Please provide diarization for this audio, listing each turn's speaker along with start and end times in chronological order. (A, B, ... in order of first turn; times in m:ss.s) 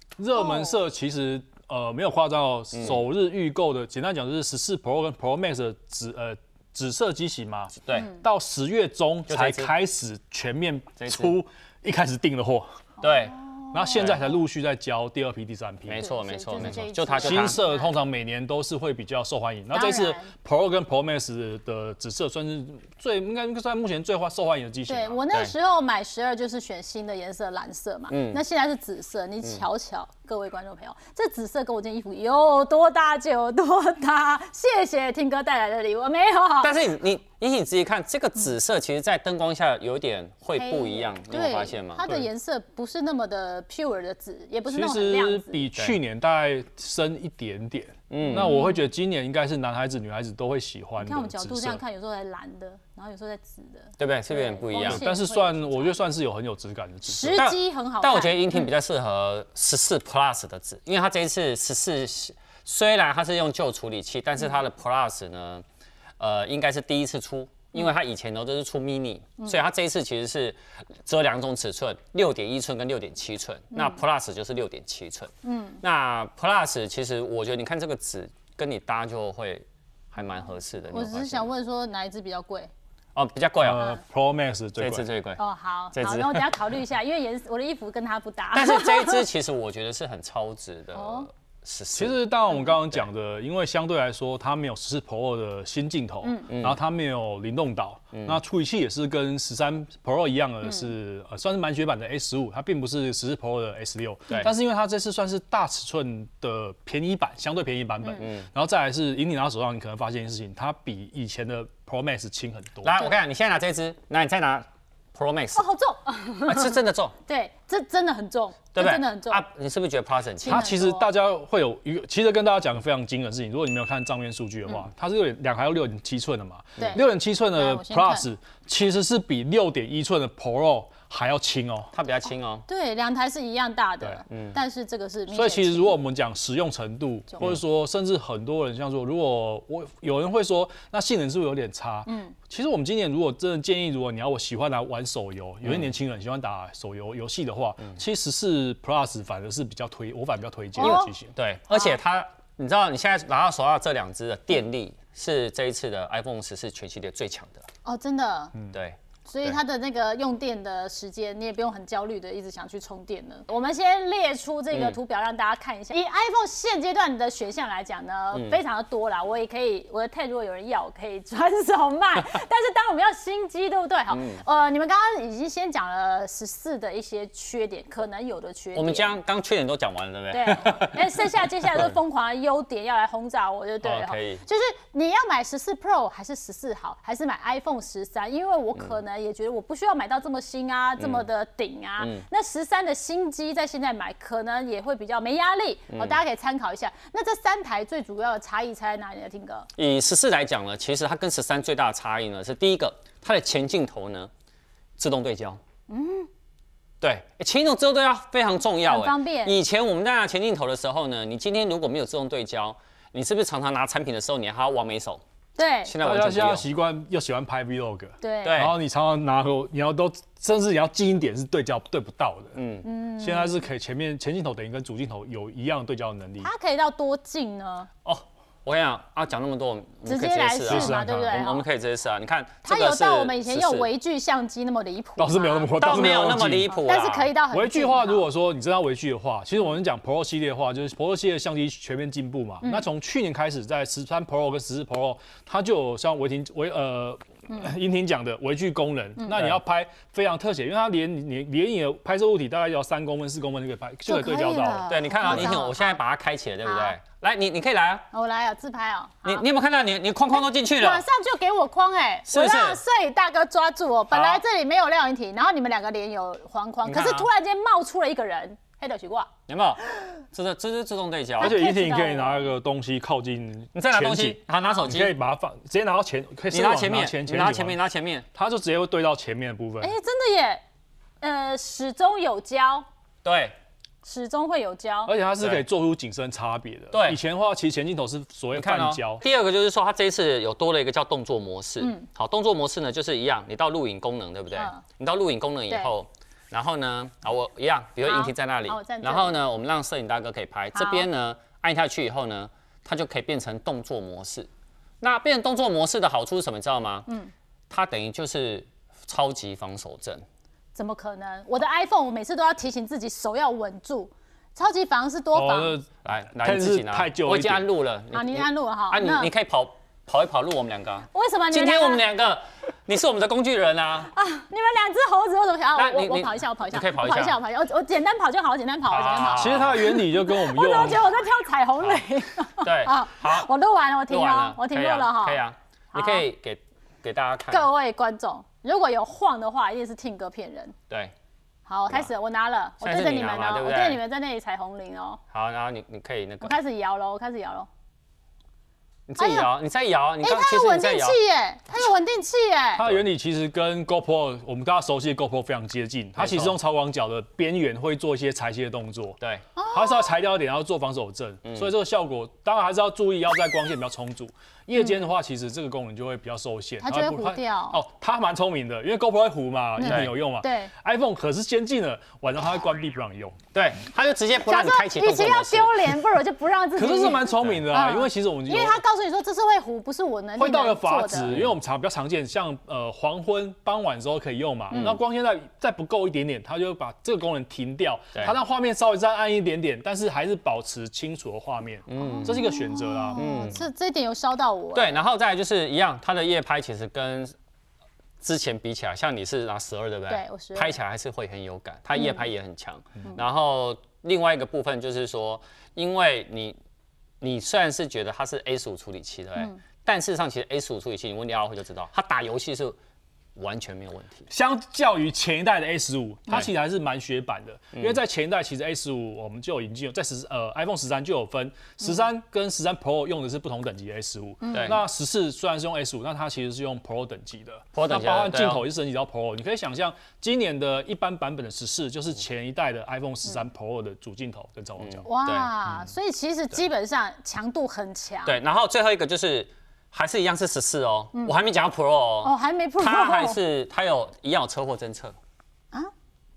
0:00.2-0:12.8 A
0:00.4-0:00.7 B
0:02.7-0:03.0 C
0:07.8-0:08.1 C
0:09.3-0:09.7 C
0:11.0-0:11.4 C
0:13.0-0:14.4 B
0:13.0-0:13.4 C
0:13.7-0:16.1 A
0:14.0-0:14.2 C
0:15.9-0:17.6 C
0:16.0-0:18.0 B
0:16.6-0:25.2 A
0:19.7-0:20.3 B
0:24.9-0:36.8 B
0:28.1-0:28.4 C
0:36.6-0:42.1 C
0:40.5-0:45.7 B
0:42.0-0:42.3 A
0:44.7-0:51.8 A
0:48.1-0:48.5 C
0:48.2-0:48.8 B
0:51.0-0:56.0 B
0:54.0-0:55.1 C
0:54.8-0:57.4 A
0:57.1-0:58.7 B
0:57.3-1:05.6 C
1:06.2-1:15.3 C
1:13.7-1:14.0 B
1:15.4-1:15.8 B
1:15.8-1:21.5 C
1:20.9-1:22.7 B
1:23.2-1:24.0 C
1:23.6-1:25.1 A
1:24.8-1:25.4 C
1:25.4-1:29.3 B
1:25.9-1:26.6 C
1:28.5-1:33.1 C
1:30.9-1:31.3 B
1:31.9-1:53.1 A
1:36.5-1:36.8 C
1:38.1-1:38.4 C
1:44.3-1:44.5 C
1:48.2-1:48.5 C
1:52.8-1:55.7 C
1:55.6-1:59.4 B
1:56.4-1:57.2 C
1:58.8-2:00.7 C
2:00.4-2:01.1 B
2:00.4-2:11.9 A
2:06.8-2:08.3 B
2:11.9-2:12.6 C
2:12.7-2:16.0 B
2:14.3-2:14.6 C
2:15.3-2:31.3 A
2:22.1-2:22.4 B
2:25.6-2:25.9 C
2:30.8-2:37.6 C
2:30.8-2:31.1 B
2:31.7-2:32.0 B
2:37.8-2:38.6 B
2:38.7-2:39.6 C
2:39.3-2:59.2 B
2:44.7-2:45.0 C
2:48.3-2:48.6 C
2:54.1-2:54.4 C
2:58.8-3:02.0 C
3:00.3-3:19.7 B
3:03.8-3:04.4 C
3:11.0-3:11.3 C
3:12.0-3:12.2 C
3:15.9-3:16.2 C
3:19.8-3:24.3 C
3:25.0-3:25.6 C
3:25.9-3:26.3 B
3:27.0-3:35.2 C
3:28.9-3:29.6 B
3:35.6-3:35.9 B
3:35.9-3:36.7 C
3:36.0-3:42.6 A
3:38.2-3:38.6 B
3:38.4-3:38.8 C
3:42.6-3:42.9 C
3:42.8-3:43.6 B
3:43.2-3:46.5 A
3:46.4-3:47.9 B
3:48.0-3:53.9 C
3:50.1-3:51.7 B
3:50.7-3:51.4 A
3:52.6-3:56.1 B
3:55.2-3:56.7 A
3:55.8-3:57.3 C
3:56.8-3:58.3 B
3:57.5-4:15.6 A
4:02.6-4:02.9 B
4:09.3-4:09.6 C
4:14.1-4:16.0 B
4:14.9-4:18.1 C
4:16.6-4:17.0 B
4:18.1-4:19.4 B
4:19.2-4:21.0 C
4:20.3-4:29.3 B
4:22.3-4:22.8 C
4:24.1-4:24.4 C
4:26.8-4:27.3 C
4:29.5-4:31.6 C
4:31.4-4:37.8 A
4:31.4-4:32.5 B
4:33.8-4:35.1 C
4:36.5-4:38.3 C
4:38.3-4:39.9 A
4:39.8-4:40.6 B
4:41.2-4:42.8 B
4:43.2-4:43.6 C
4:44.0-4:45.1 B
4:45.1-4:49.2 A
4:45.4-4:45.7 C
4:46.9-4:47.2 C
4:48.5-5:04.5 C
4:51.8-4:52.1 B
4:54.5-4:54.8 B
4:58.0-4:59.4 B
5:00.8-5:01.1 B
5:05.0-5:07.1 C
5:07.7-5:10.2 C
5:10.8-5:15.8 B
5:15.3-5:17.7 A
5:16.0-5:24.1 C
5:18.1-5:19.3 B
5:21.1-5:22.1 B
5:24.1-5:36.3 B
5:25.8-5:27.4 C
5:28.9-5:29.8 C
5:29.3-5:31.1 A
5:32.6-5:33.5 C
5:34.1-5:37.7 C
5:37.5-5:40.8 B
5:41.7-5:45.2 B
5:42.8-5:44.0 C
5:45.3-5:46.6 C
5:46.4-5:47.7 B
5:49.1-5:51.2 C
5:49.2-5:49.5 B
5:50.2-5:52.8 B
5:52.8-5:59.2 A
5:56.2-5:56.6 C
5:59.2-5:59.4 C
5:59.6-6:00.1 B
5:59.7-6:13.4 A
6:01.4-6:01.7 C
6:04.8-6:05.1 B
6:06.8-6:07.8 B
6:09.8-6:10.7 B
6:09.8-6:10.1 C
6:13.5-6:16.0 C
6:14.4-6:21.4 B
6:16.8-6:18.8 A
6:20.4-6:33.2 A
6:21.3-6:21.5 C
6:24.7-6:25.0 C
6:31.9-6:32.5 C
6:32.0-6:35.0 B
6:33.2-6:33.6 C
6:34.7-6:37.3 C
6:38.2-6:46.6 C
6:40.1-6:40.8 B
6:42.0-6:42.3 B
6:47.2-6:52.8 C
6:53.4-6:54.3 C
6:54.3-7:15.1 A
6:57.8-6:58.0 C
7:04.4-7:04.8 B
7:04.5-7:04.8 C
7:07.8-7:08.7 C
7:14.8-7:15.9 C
7:15.1-7:18.4 B
7:18.3-7:25.2 C
7:22.2-7:23.4 B